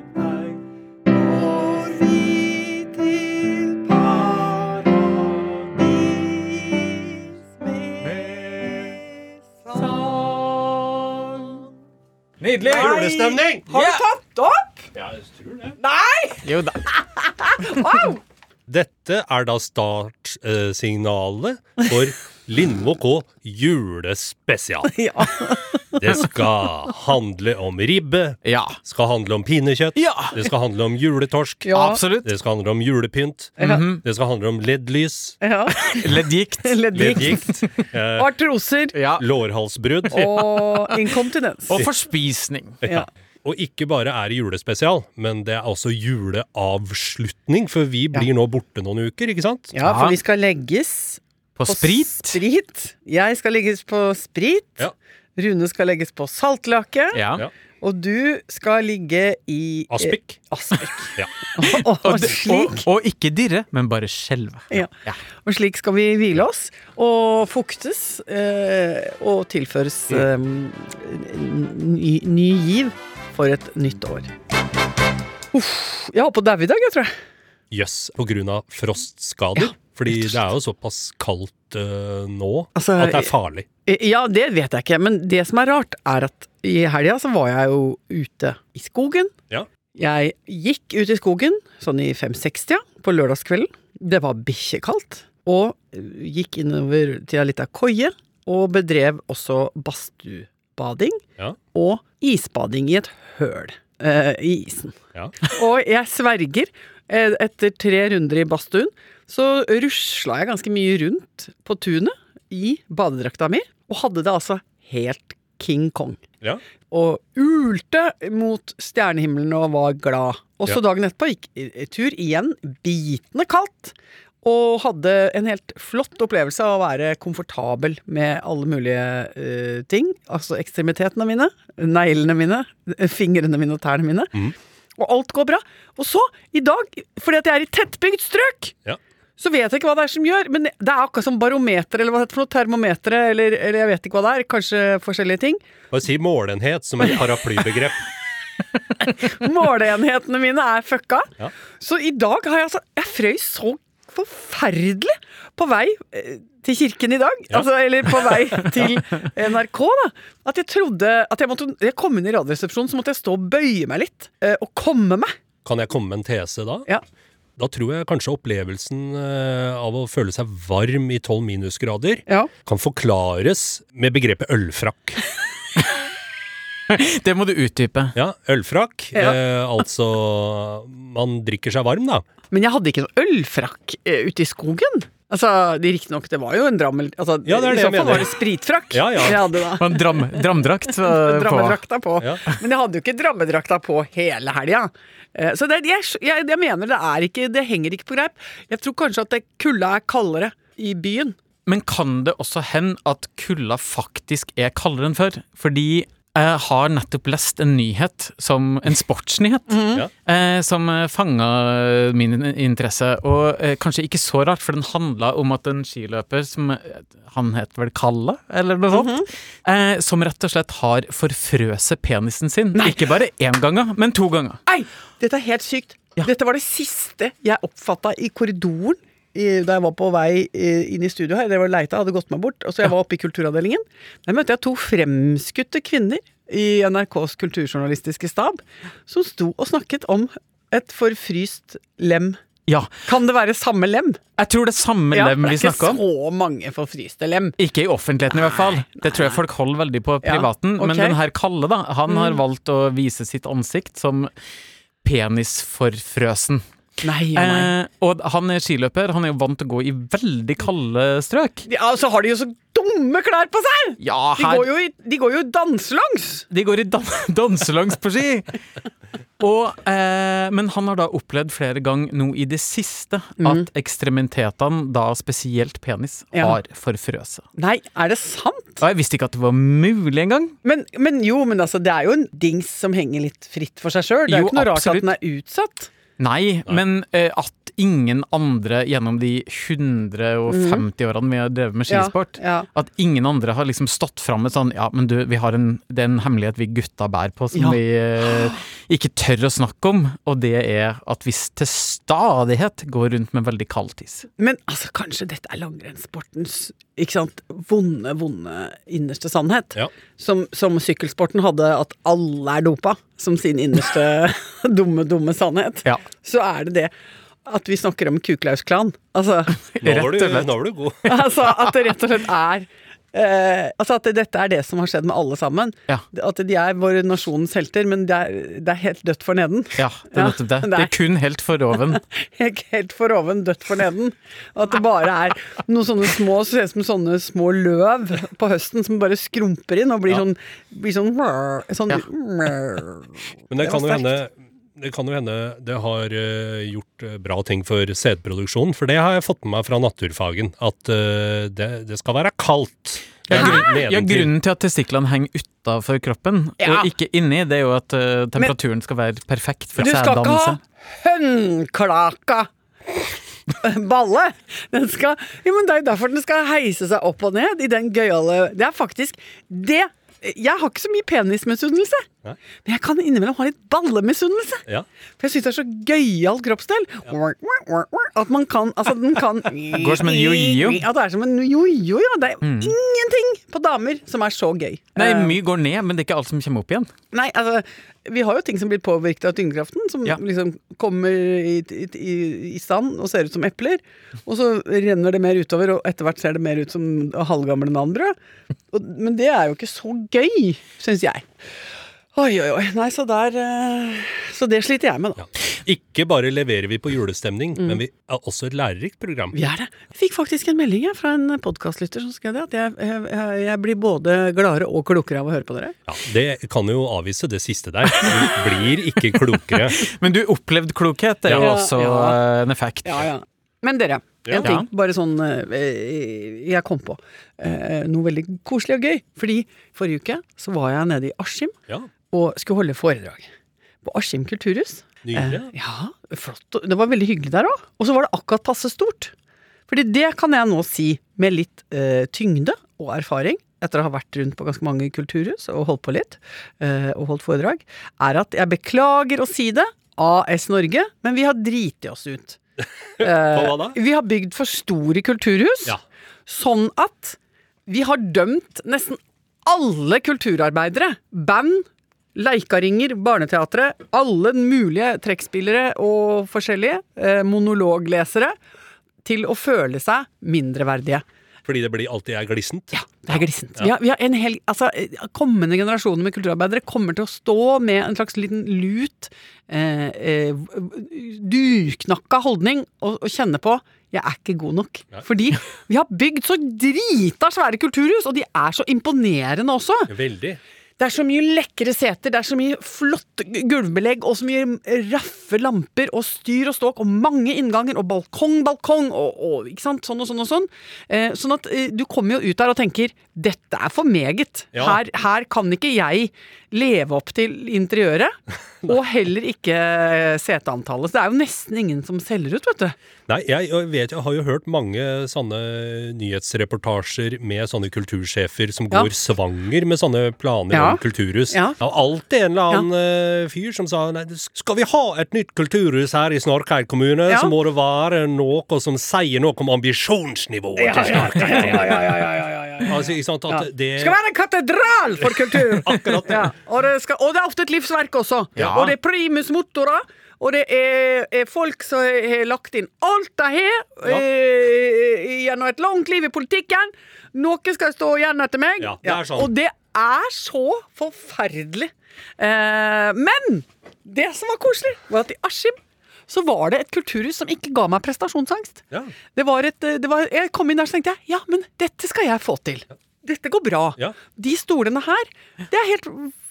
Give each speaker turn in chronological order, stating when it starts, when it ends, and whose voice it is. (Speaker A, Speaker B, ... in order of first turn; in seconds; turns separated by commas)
Speaker A: 1.1-5.1, Speaker A: 5.7-7.1, Speaker A: 7.6-8.3, Speaker A: 9.7-11.4, Speaker B: 12.4-13.1, Speaker C: 12.7-13.7, Speaker A: 12.7-14.9, Speaker B: 13.7-14.0, Speaker A: 15.8-16.5, Speaker B: 16.4-17.9, Speaker A: 17.4-18.2, Speaker C: 18.7-25.0, Speaker A: 24.9-25.8, Speaker C: 25.9-35.4, Speaker B: 28.4-28.8, Speaker B: 30.0-30.5, Speaker A: 31.6-32.0, Speaker B: 31.7-32.3, Speaker A: 33.6-33.8, Speaker B: 33.6-34.0, Speaker A: 35.4-36.1, Speaker B: 35.8-37.4, Speaker A: 36.6-37.5, Speaker C: 36.9-38.3, Speaker A: 38.2-39.0, Speaker B: 38.9-39.3, Speaker C: 39.2-40.4, Speaker B: 40.1-41.0, Speaker A: 40.1-41.8, Speaker B: 41.7-42.8, Speaker C: 42.8-49.7, Speaker A: 49.7-57.2, Speaker B: 49.8-50.1, Speaker B: 51.6-52.4, Speaker B: 57.1-57.5, Speaker A: 57.8-62.9, Speaker C: 59.9-60.4, Speaker B: 61.6-65.2, Speaker A: 65.4-74.3, Speaker A: 75.5-77.1, Speaker C: 77.7-83.7, Speaker A: 82.8-83.3, Speaker A: 83.8-89.3, Speaker A: 90.0-101.2, Speaker A: 101.7-116.2, Speaker A: 116.9-138.8, Speaker A: 139.4-145.6, Speaker C: 145.9-148.1, Speaker A: 149.0-165.3, Speaker C: 165.7-166.9, Speaker C: 167.6-175.2, Speaker B: 176.9-178.2, Speaker C: 178.2-182.3, Speaker A: 182.5-201.4, Speaker C: 187.4-188.3, Speaker C: 188.9-189.5, Speaker B: 189.8-191.8, Speaker B: 201.7-224.6, Speaker A: 209.7-210.0, Speaker A: 218.9-219.3, Speaker A: 222.8-223.1, Speaker A: 224.7-242.4, Speaker B: 242.7-243.0, Speaker A: 243.1-244.2, Speaker B: 244.4-246.0, Speaker A: 245.1-247.6, Speaker B: 247.6-254.3, Speaker A: 248.3-249.4, Speaker A: 250.2-251.2, Speaker A: 252.1-252.4, Speaker B: 255.0-256.6, Speaker A: 257.0-257.7, Speaker B: 257.4-261.7, Speaker A: 261.7-266.5, Speaker B: 264.0-264.7, Speaker B: 266.5-268.6, Speaker B: 269.4-277.4, Speaker A: 273.4-273.7, Speaker A: 277.6-278.8, Speaker B: 278.8-280.6, Speaker A: 280.6-285.9, Speaker B: 284.3-285.1, Speaker B: 286.2-304.3, Speaker A: 290.5-290.8, Speaker A: 291.9-292.7, Speaker A: 297.5-298.6, Speaker A: 304.4-316.9, Speaker A: 317.5-319.6, Speaker B: 319.7-320.5, Speaker C: 319.8-321.2, Speaker A: 321.1-330.9, Speaker B: 329.8-332.0, Speaker A: 331.9-343.1, Speaker C: 343.5-354.3, Speaker A: 343.6-344.2, Speaker B: 353.3-360.6, Speaker A: 353.3-353.6, Speaker A: 356.6-356.9, Speaker A: 359.8-363.0, Speaker A: 363.6-372.1, Speaker A: 372.6-374.6, Speaker A: 375.2-385.4, Speaker B: 379.8-380.8, Speaker B: 382.4-382.8, Speaker B: 385.0-386.9, Speaker A: 387.1-398.1, Speaker A: 398.7-401.3, Speaker A: 402.1-405.3, Speaker C: 405.2-409.4, Speaker A: 409.3-415.8, Speaker C: 415.9-419.8, Speaker B: 419.5-423.1, Speaker C: 421.3-421.6, Speaker A: 421.4-422.2, Speaker A: 422.9-431.5, Speaker C: 424.2-424.6, Speaker B: 424.4-424.7, Speaker A: 432.1-433.3, Speaker A: 433.8-439.1, Speaker C: 435.0-435.5, Speaker A: 439.7-452.4, Speaker C: 453.0-453.8, Speaker A: 453.0-468.4, Speaker A: 469.1-471.0, Speaker C: 471.4-473.7, Speaker A: 472.7-489.9, Speaker C: 489.9-490.4, Speaker A: 490.8-512.8, Speaker C: 504.5-504.8, Speaker C: 513.1-532.0, Speaker A: 520.5-521.6, Speaker A: 527.1-527.3, Speaker A: 530.6-555.6, Speaker C: 532.6-534.0, Speaker C: 535.0-536.3, Speaker B: 538.4-538.7, Speaker C: 548.6-549.3, Speaker A: 556.1-558.6, Speaker A: 559.1-566.1